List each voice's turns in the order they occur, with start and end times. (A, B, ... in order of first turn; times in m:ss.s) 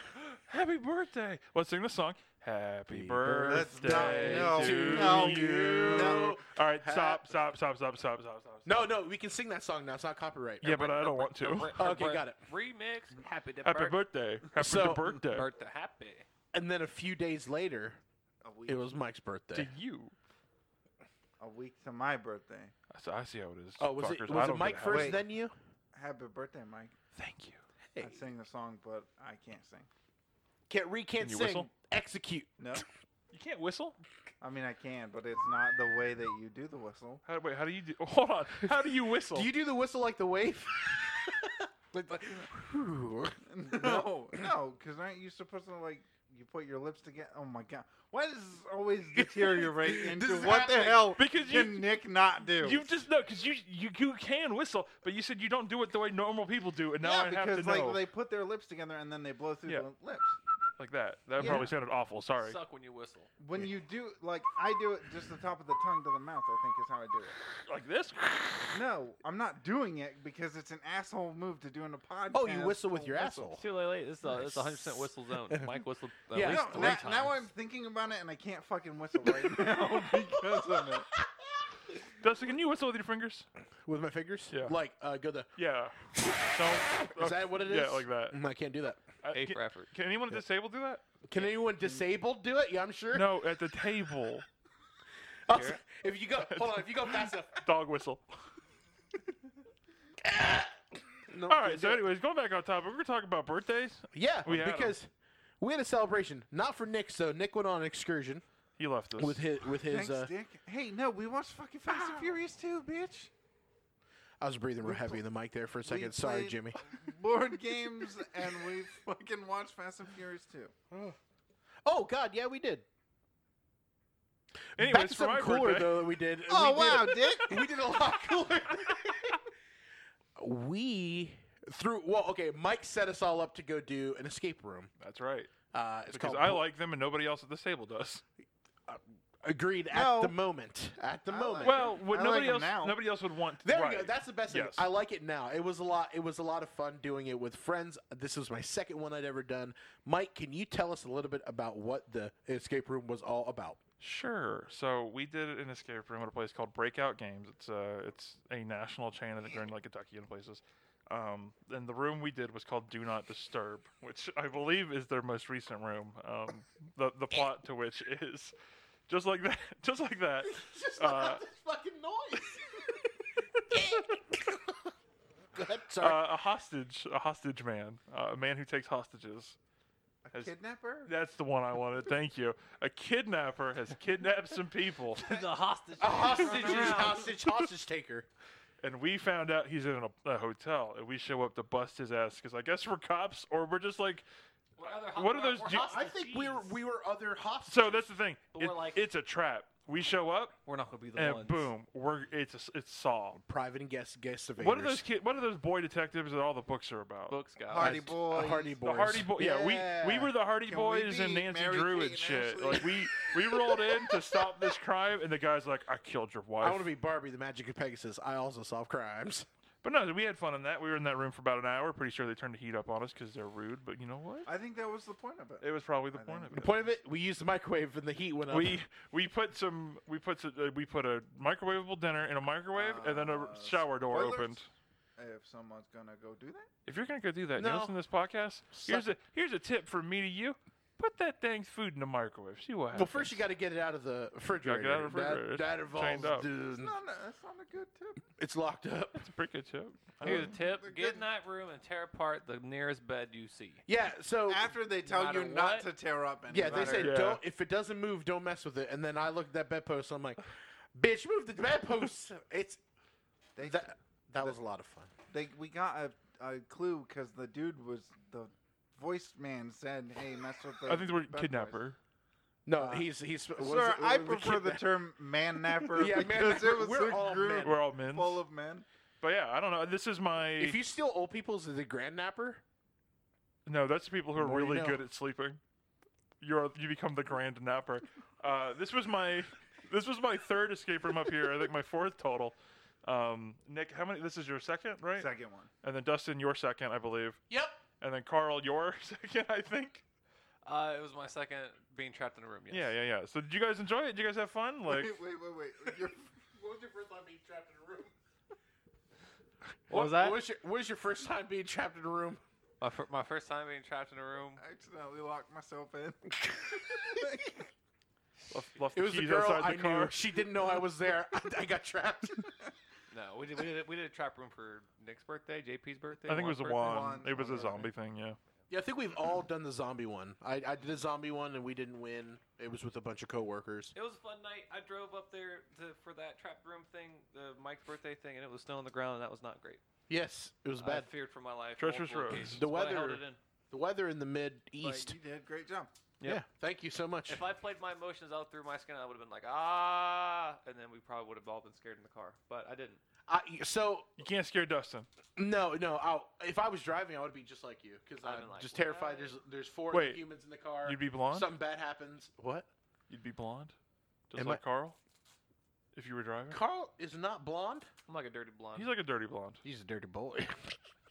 0:00.2-0:08.9 A
0:02.9-0:07.6 B
0:03.4-0:06.4 C
0:08.6-0:10.8 B
0:10.6-0:11.8 A
0:10.7-0:14.0 D
0:11.7-0:12.4 B
0:13.6-0:15.5 A
0:14.6-0:15.2 B
0:15.3-0:16.3 D
0:16.5-0:18.0 B
0:18.4-0:18.9 C
0:18.7-0:19.7 B
0:19.5-0:20.1 A
0:21.4-0:22.7 C
0:22.9-0:25.2 A
0:23.8-0:25.5 B
0:24.7-0:25.2 C
0:25.9-0:26.9 C
0:27.2-0:27.6 A
0:28.0-0:28.2 B
0:28.0-0:29.9 C
0:30.7-0:32.9 B
0:31.2-0:31.7 A
0:32.6-0:32.9 C
0:33.3-0:34.0 A
0:34.4-0:37.2 C
0:37.3-0:39.5 A
0:39.3-0:44.5 B
0:43.4-0:53.0 C
0:49.2-0:51.2 B
0:51.2-0:58.0 A
0:57.0-1:00.4 C
1:00.8-1:02.6 A
1:01.4-1:01.7 C
1:01.4-1:01.7 B
1:02.4-1:03.3 D
1:03.4-1:07.4 C
1:07.7-1:08.8 A
1:08.7-1:13.6 C
1:12.3-1:13.7 B
1:13.6-1:17.4 D
1:14.3-1:15.7 B
1:16.3-1:17.2 B
1:16.4-1:21.1 C
1:19.2-1:21.6 B
1:22.2-1:23.5 A
1:23.9-1:25.5 B
1:24.5-1:24.8 A
1:25.6-1:28.4 A
1:26.2-1:29.0 B
1:29.2-1:31.1 A
1:29.3-1:29.9 D
1:31.3-1:33.3 B
1:33.1-1:34.4 A
1:35.5-1:37.6 B
1:35.5-1:35.8 D
1:36.4-1:38.3 A
1:40.2-1:42.0 B
1:41.5-1:45.0 A
1:44.1-1:45.1 B
1:45.6-1:48.4 B
1:48.8-1:49.4 A
1:49.2-1:50.3 B
1:49.9-1:53.3 C
1:51.9-1:52.4 B
1:54.4-1:56.8 B
1:54.8-1:55.2 C
1:55.8-2:00.7 C
2:00.9-2:01.2 B
2:01.8-2:02.8 B
2:04.7-2:09.4 B
2:04.8-2:06.1 A
2:06.5-2:07.6 C
2:10.4-2:14.9 B
2:15.0-2:15.5 A
2:15.7-2:16.6 B
2:16.1-2:18.2 A
2:18.9-2:22.0 B
2:19.9-2:20.4 C
2:21.3-2:23.0 C
2:21.6-2:24.8 A
2:23.6-2:33.8 B
2:34.0-2:48.5 A
2:49.1-2:51.4 A
2:50.4-2:52.7 B
2:53.7-2:54.9 B
2:55.6-2:56.3 B
2:56.0-2:59.6 A
3:00.2-3:01.1 C
3:01.0-3:05.3 A
3:05.2-3:07.3 D
3:06.0-3:08.3 B
3:06.6-3:07.1 A
3:08.8-3:14.3 A
3:14.8-3:16.8 D
3:14.8-3:15.9 A
3:15.6-3:18.1 B
3:17.7-3:20.6 A
3:18.5-3:19.0 D
3:20.7-3:21.7 D
3:21.2-3:23.4 A
3:23.3-3:25.0 B
3:24.6-3:27.4 A
3:27.3-3:28.1 D
3:27.7-3:28.8 C
3:27.8-3:30.3 B
3:28.8-3:36.9 A
3:30.6-3:33.0 C
3:36.6-3:39.5 B
3:39.8-3:44.5 A
3:44.5-3:46.8 C
3:45.6-3:46.9 A
3:46.5-3:48.8 B
3:48.5-3:54.7 A
3:52.7-3:54.6 C
3:55.2-3:56.7 C
3:56.9-4:03.4 A
3:57.6-3:57.9 B
3:58.7-3:59.1 B
4:02.9-4:07.0 B
4:04.6-4:06.5 A
4:06.7-4:08.3 C
4:08.4-4:09.3 B
4:09.2-4:10.6 A
4:10.2-4:11.3 C
4:10.2-4:13.8 D
4:13.9-4:14.7 B
4:14.5-4:17.2 C
4:15.0-4:15.9 D
4:16.5-4:20.4 B
4:16.6-4:17.0 D
4:16.9-4:17.4 A
4:21.0-4:22.8 B
4:23.6-4:24.6 C
4:23.6-4:25.1 B
4:25.3-4:31.8 C
4:30.9-4:32.0 A
4:32.7-4:34.9 B
4:32.8-4:33.1 C
4:33.6-4:38.9 C
4:35.8-4:37.8 B
4:37.6-4:38.4 A
4:39.2-4:40.8 A
4:40.6-4:42.6 B
4:43.7-4:45.6 A
4:44.4-4:45.0 B
4:46.4-4:55.3 A
4:55.2-4:55.7 C
4:55.8-4:57.4 A
4:57.5-4:57.8 B
4:58.0-5:00.0 A
5:00.6-5:02.9 D
5:02.7-5:05.2 A
5:04.9-5:06.3 C
5:06.6-5:08.1 B
5:09.9-5:12.4 B
5:09.9-5:10.4 D
5:12.8-5:14.6 D
5:14.6-5:17.6 C
5:16.7-5:17.3 B
5:18.5-5:20.2 A
5:19.0-5:22.5 B
5:23.1-5:27.1 D
5:26.2-5:28.4 A
5:26.7-5:27.9 C
5:28.7-5:33.9 B
5:34.0-5:39.8 D
5:40.1-5:41.1 B
5:40.8-5:43.4 D
5:41.8-5:43.2 A
5:42.4-5:43.2 B
5:43.7-5:45.2 B
5:44.8-5:45.9 C
5:46.2-5:47.4 B
5:47.3-5:53.0 D
5:53.3-5:54.1 B
5:54.2-5:55.1 A
5:55.4-6:02.7 B
5:58.2-5:59.3 D
5:59.9-6:00.2 A
6:00.8-6:01.5 A
6:03.1-6:03.7 A
6:04.3-6:05.0 A
6:04.4-6:04.6 B
6:05.9-6:06.6 A
6:06.5-6:07.9 B
6:08.1-6:08.9 D
6:08.8-6:09.6 A
6:09.6-6:10.8 B